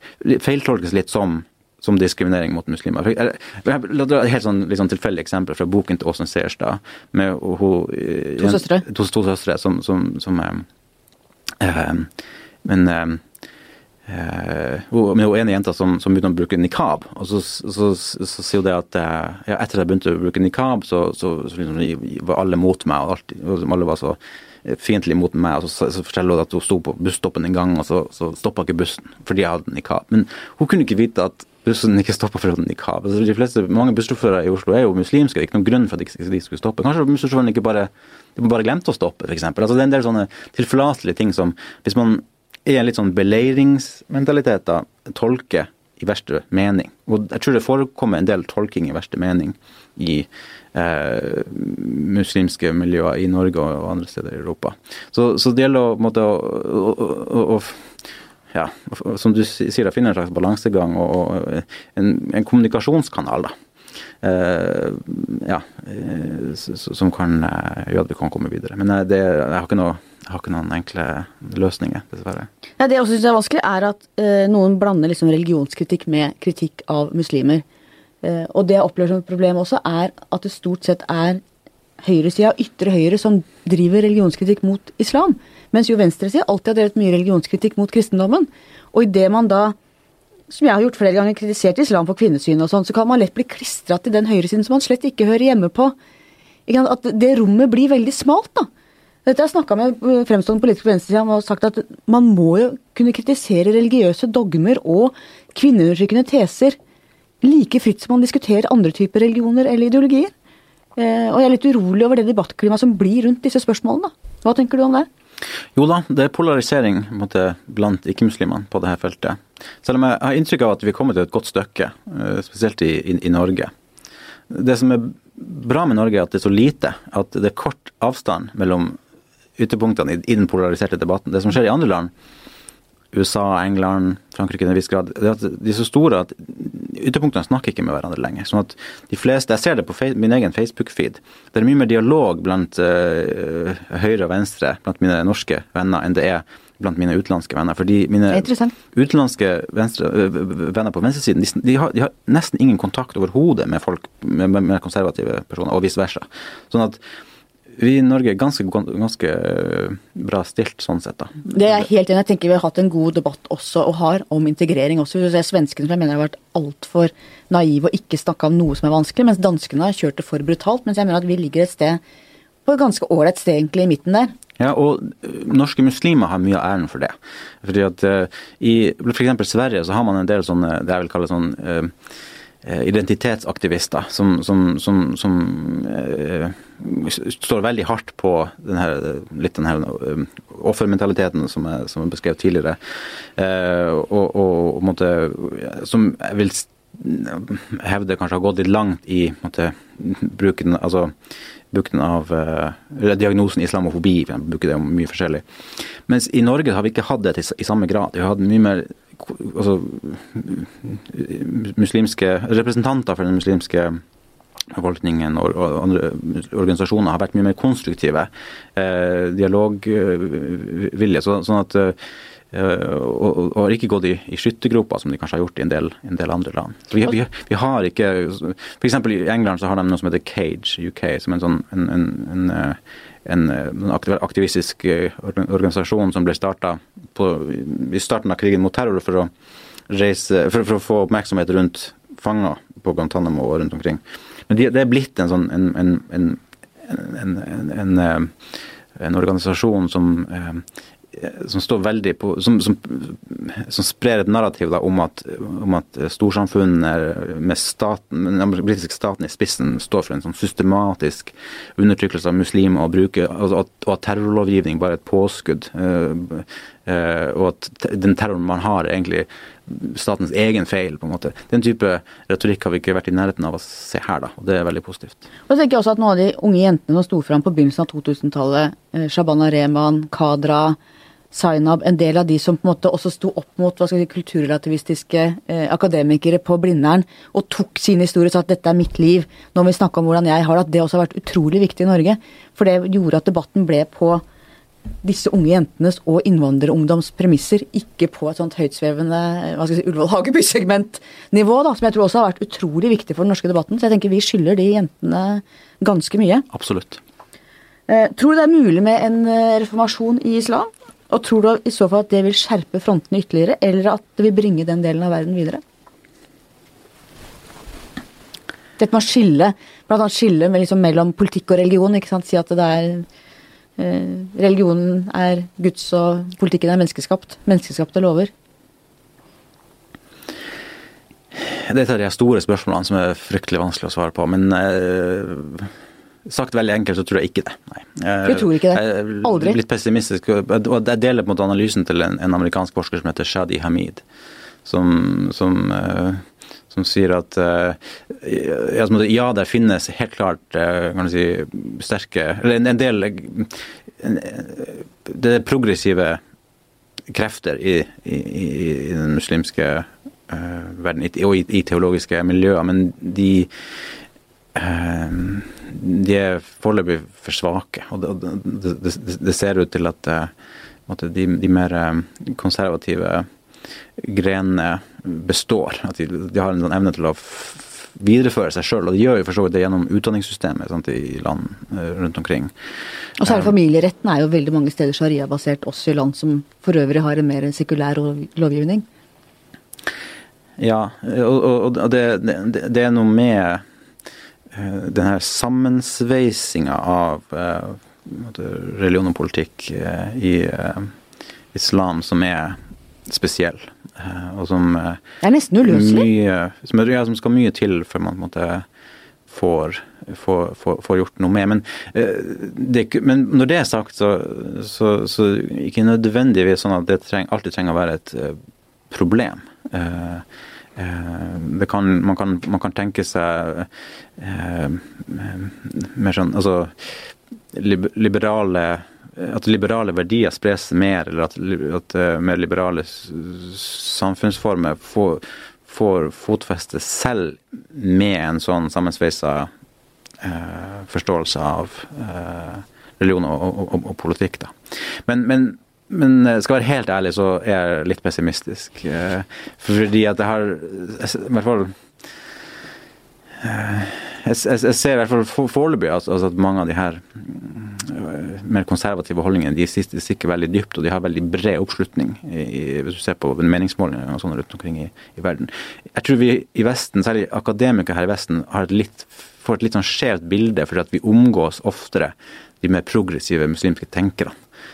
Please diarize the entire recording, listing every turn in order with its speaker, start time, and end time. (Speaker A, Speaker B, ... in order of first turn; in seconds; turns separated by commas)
Speaker A: 0.2-10.7, Speaker B: 8.4-8.8, Speaker A: 11.6-12.1, Speaker A: 12.6-13.2, Speaker A: 14.1-57.9, Speaker A: 58.5-63.5, Speaker A: 64.2-72.5, Speaker B: 72.8-77.6, Speaker B: 78.2-81.4, Speaker B: 82.0-89.8, Speaker B: 90.5-95.9, Speaker B: 96.7-98.7, Speaker B: 99.3-106.8, Speaker B: 107.4-110.3, Speaker B: 111.0-115.1, Speaker A: 115.7-123.7, Speaker A: 124.5-129.0, Speaker A: 129.6-132.1, Speaker A: 133.1-157.0, Speaker B: 148.3-148.7, Speaker A: 157.8-161.9, Speaker B: 161.4-172.0, Speaker B: 172.7-174.3, Speaker A: 174.6-181.9, Speaker A: 182.6-201.1, Speaker A: 201.7-214.0, Speaker A: 214.7-222.0, Speaker A: 222.5-239.3, Speaker A: 239.9-248.3, Speaker A: 248.9-275.2, Speaker B: 275.5-280.8, Speaker B: 281.3-294.2, Speaker B: 295.0-306.5, Speaker A: 306.5-307.0, Speaker B: 307.9-315.6, Speaker B: 318.8-323.1, Speaker B: 323.8-328.3, Speaker A: 331.3-335.7, Speaker A: 336.3-344.0, Speaker B: 338.2-339.6, Speaker A: 344.6-356.2, Speaker A: 357.1-363.5, Speaker A: 364.6-370.3, Speaker A: 370.9-373.3, Speaker A: 374.0-382.5, Speaker B: 383.2-388.9, Speaker A: 383.2-383.5, Speaker A: 390.6-393.6, Speaker A: 394.5-400.9, Speaker A: 401.5-405.0, Speaker B: 405.2-406.1, Speaker A: 405.6-408.6, Speaker A: 409.3-418.4, Speaker A: 418.9-439.5, Speaker A: 440.2-451.7, Speaker A: 453.4-474.4